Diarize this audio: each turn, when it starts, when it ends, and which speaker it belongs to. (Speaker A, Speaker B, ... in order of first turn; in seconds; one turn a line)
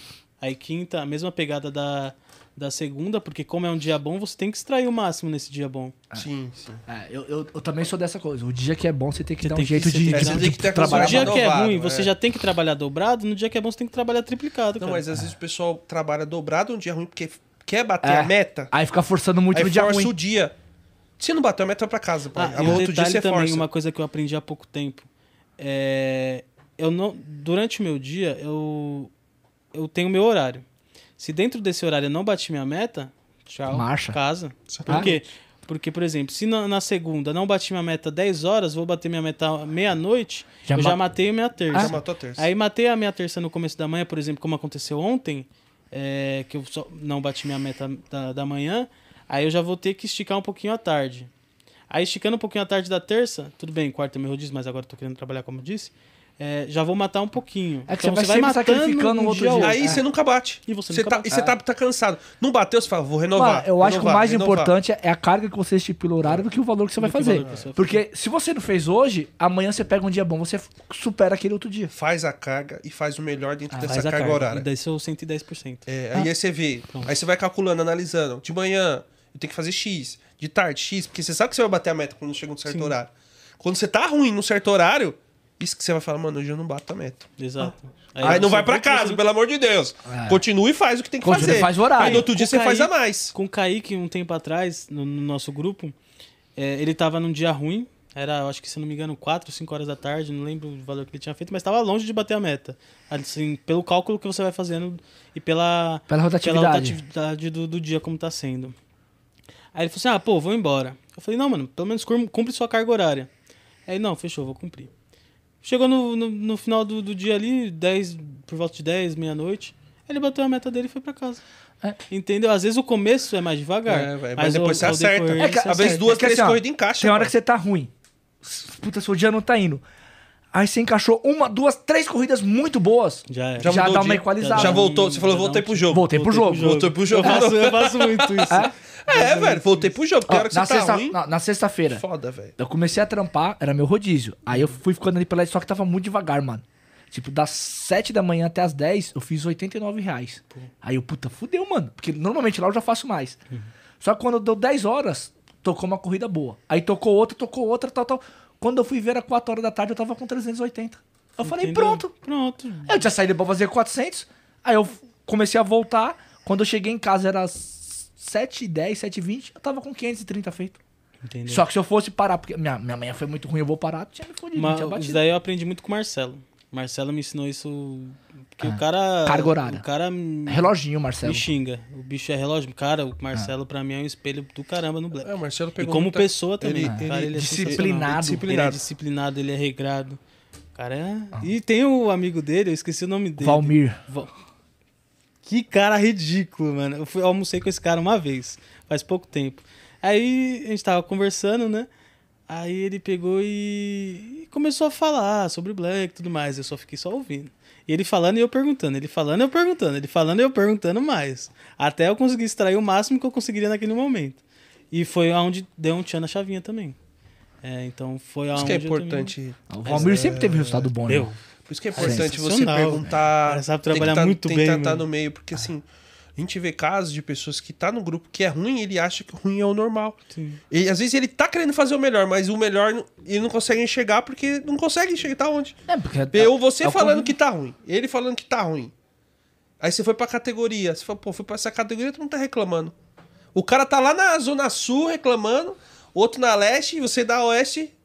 Speaker A: 0.4-6.0
Speaker B: 6.2-6.8
Speaker C: 6.9-11.5
Speaker A: 9.4-15.0
Speaker B: 10.1-12.1
Speaker B: 14.8-18.7
Speaker C: 18.0-20.1
Speaker B: 19.5-20.5
Speaker B: 21.2-23.6
Speaker A: 22.4-25.1
Speaker C: 22.6-22.9
Speaker A: 25.6-29.1
Speaker A: 29.7-30.6
Speaker A: 31.2-51.3
Speaker C: 33.7-34.2
Speaker B: 34.7-35.1
Speaker C: 34.9-35.1
Speaker C: 40.7-41.0
Speaker B: 41.7-42.5
Speaker A: 51.9-60.0
Speaker C: 57.9-60.0
Speaker B: 59.5-64.7
Speaker A: 60.7-61.5
Speaker C: 63.3-71.9
Speaker A: 67.0-68.0
Speaker B: 67.3-67.7
Speaker B: 71.9-74.7
Speaker A: 73.8-75.9
Speaker B: 75.9-87.3
Speaker A: 82.7-83.0
Speaker A: 87.4-89.2
Speaker B: 88.2-93.3
Speaker C: 90.1-90.4
Speaker C: 91.2-92.3
Speaker A: 91.4-96.0
Speaker A: 96.6-108.8
Speaker C: 106.1-107.0
Speaker A: 109.7-113.3
Speaker A: 113.9-114.9
Speaker A: 115.6-121.4
Speaker A: 122.1-126.0
Speaker B: 123.9-127.3
Speaker C: 125.4-127.9
Speaker C: 128.4-129.8
Speaker C: 130.5-134.8
Speaker A: 133.3-139.9
Speaker B: 133.6-141.2
Speaker C: 135.9-136.8
Speaker C: 140.3-142.0
Speaker B: 141.9-142.6
Speaker C: 142.6-153.4
Speaker C: 154.0-162.1
Speaker A: 161.4-163.0
Speaker C: 162.9-170.8
Speaker A: 171.2-171.7
Speaker C: 171.5-175.2
Speaker A: 174.6-180.7
Speaker C: 178.6-179.8
Speaker C: 180.5-181.5
Speaker A: 181.2-190.2
Speaker B: 185.2-188.8
Speaker C: 186.8-188.5
Speaker A: 190.8-194.3
Speaker C: 193.4-194.0
Speaker A: 195.4-201.9
Speaker A: 202.5-217.0
Speaker A: 217.6-219.3
Speaker B: 218.5-220.9
Speaker C: 219.7-221.3
Speaker A: 219.8-220.3
Speaker A: 221.1-221.4
Speaker B: 221.7-225.8
Speaker A: 221.9-225.1
Speaker C: 222.0-222.3
Speaker B: 226.4-230.2
Speaker A: 230.3-230.6
Speaker B: 230.7-235.8
Speaker C: 235.9-237.3
Speaker B: 236.3-238.9
Speaker B: 239.8-242.9
Speaker B: 243.5-247.9